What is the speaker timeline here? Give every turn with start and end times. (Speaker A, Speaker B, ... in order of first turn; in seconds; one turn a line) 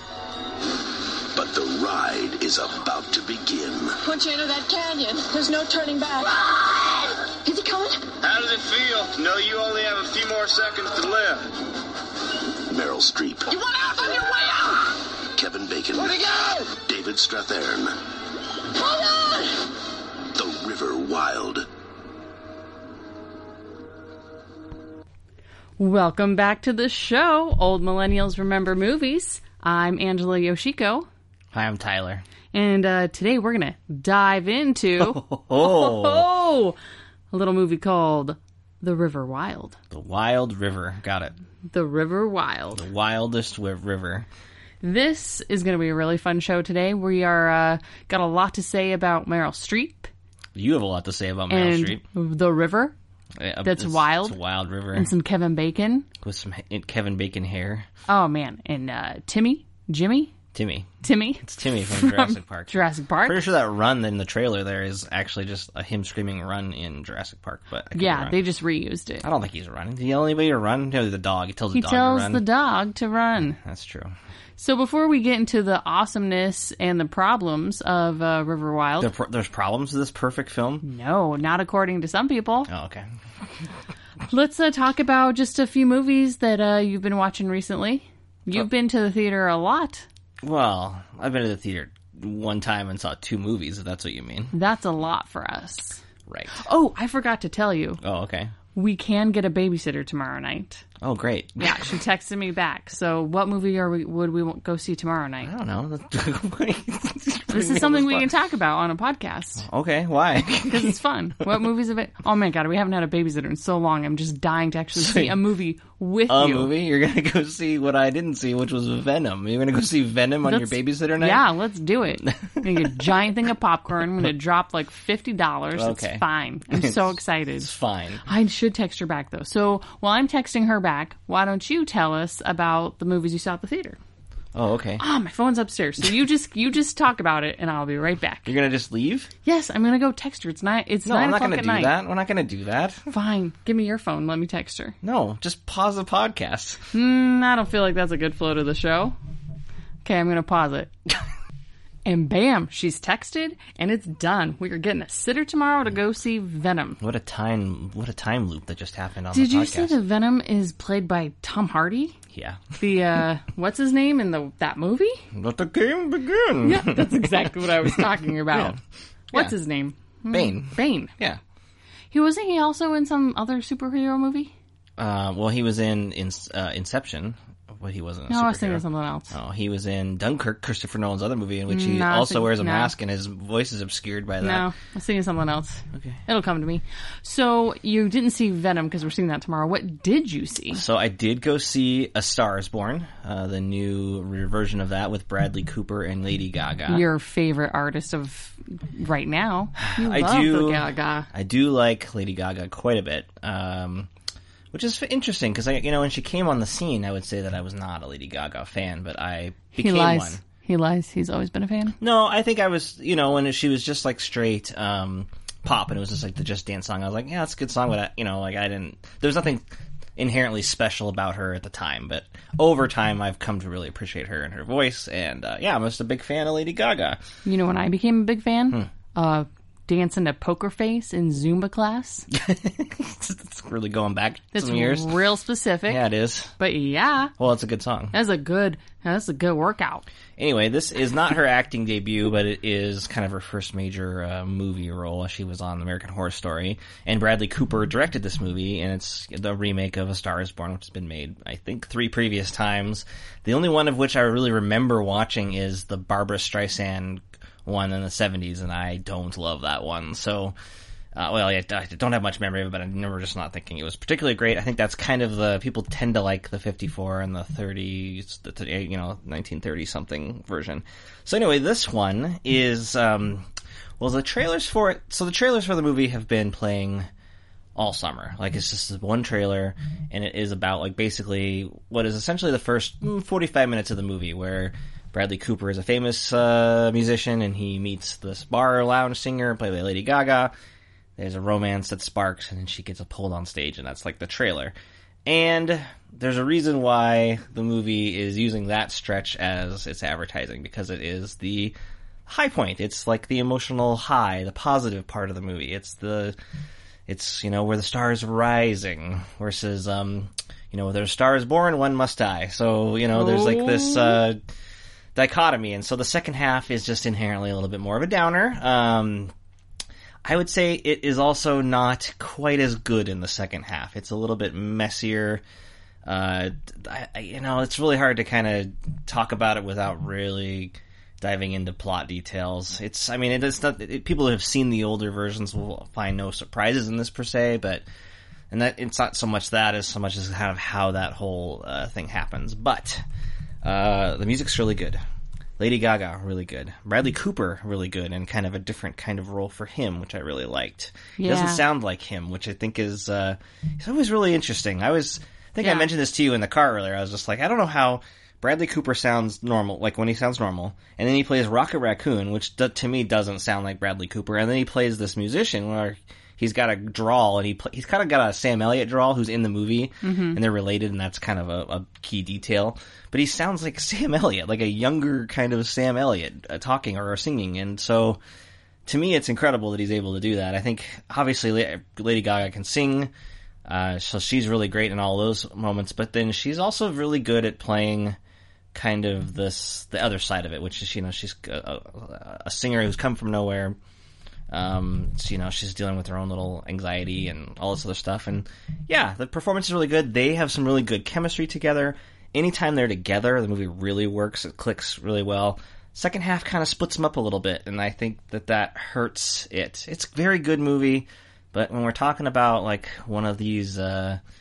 Speaker A: 1.3-4.0
Speaker B: 4.0-8.1
Speaker C: 8.2-11.5
Speaker A: 12.7-13.6
Speaker B: 13.5-14.9
Speaker A: 15.3-18.0
Speaker B: 18.8-19.6
Speaker A: 20.3-21.7
Speaker D: 25.8-31.1
Speaker E: 31.5-32.2
Speaker D: 32.5-36.8
Speaker E: 35.0-36.2
Speaker D: 37.3-39.8
Speaker E: 39.9-41.3
Speaker D: 41.7-42.9
Speaker E: 42.8-44.3
Speaker D: 44.8-50.1
Speaker E: 50.6-52.0
Speaker D: 51.5-53.0
Speaker E: 53.4-55.1
Speaker D: 53.6-54.4
Speaker D: 54.9-56.1
Speaker E: 56.2-57.9
Speaker D: 58.1-60.3
Speaker E: 60.5-60.9
Speaker D: 61.0-63.4
Speaker E: 61.4-62.7
Speaker E: 63.3-68.4
Speaker D: 67.9-69.3
Speaker E: 69.2-72.4
Speaker D: 71.7-73.6
Speaker E: 73.6-74.1
Speaker D: 74.6-79.1
Speaker E: 79.0-80.8
Speaker D: 80.8-82.7
Speaker E: 82.7-83.1
Speaker D: 84.3-90.1
Speaker E: 90.4-94.5
Speaker D: 94.5-96.0
Speaker E: 96.3-96.5
Speaker D: 96.6-98.0
Speaker E: 98.0-98.5
Speaker D: 98.7-100.8
Speaker E: 101.0-101.9
Speaker D: 101.6-105.5
Speaker E: 105.4-108.3
Speaker D: 107.5-109.7
Speaker E: 109.6-111.0
Speaker D: 110.7-116.7
Speaker E: 115.0-115.4
Speaker E: 116.3-121.5
Speaker D: 120.4-127.7
Speaker E: 122.3-123.1
Speaker E: 125.7-128.2
Speaker D: 128.2-134.0
Speaker E: 134.6-135.0
Speaker D: 135.0-138.5
Speaker E: 138.5-139.3
Speaker D: 139.4-141.9
Speaker E: 141.1-143.1
Speaker D: 143.1-144.9
Speaker E: 145.0-146.8
Speaker D: 146.9-149.2
Speaker D: 150.0-150.9
Speaker D: 152.1-157.0
Speaker E: 157.0-159.9
Speaker D: 159.3-162.2
Speaker E: 162.3-162.6
Speaker D: 162.8-165.2
Speaker E: 165.3-168.8
Speaker D: 166.6-168.8
Speaker D: 169.3-171.1
Speaker E: 170.3-171.4
Speaker D: 172.1-174.5
Speaker E: 175.0-184.7
Speaker D: 178.3-179.4
Speaker D: 181.7-182.9
Speaker D: 184.4-190.8
Speaker E: 185.9-186.2
Speaker E: 190.7-197.1
Speaker D: 196.9-201.3
Speaker E: 199.8-204.1
Speaker E: 204.7-210.4
Speaker D: 209.8-212.0
Speaker E: 212.0-219.7
Speaker E: 220.2-227.2
Speaker D: 227.4-232.3
Speaker E: 232.3-235.1
Speaker D: 234.5-236.0
Speaker E: 235.9-236.5
Speaker D: 236.6-237.3
Speaker E: 237.4-238.2
Speaker D: 238.1-240.1
Speaker E: 240.4-260.6
Speaker E: 261.1-273.5
Speaker E: 274.0-277.1
Speaker E: 277.8-290.5
Speaker E: 291.2-294.7
Speaker E: 295.3-301.8
Speaker E: 302.3-306.4
Speaker E: 307.1-314.4
Speaker D: 313.1-314.2
Speaker E: 315.1-319.3
Speaker E: 320.2-325.4
Speaker E: 326.1-337.8
Speaker E: 338.5-343.0
Speaker E: 343.6-345.0
Speaker E: 345.6-378.2
Speaker D: 351.2-351.6
Speaker D: 355.6-355.9
Speaker D: 370.0-370.4
Speaker E: 378.9-383.1
Speaker E: 383.7-388.2
Speaker E: 388.7-393.8
Speaker E: 394.5-414.2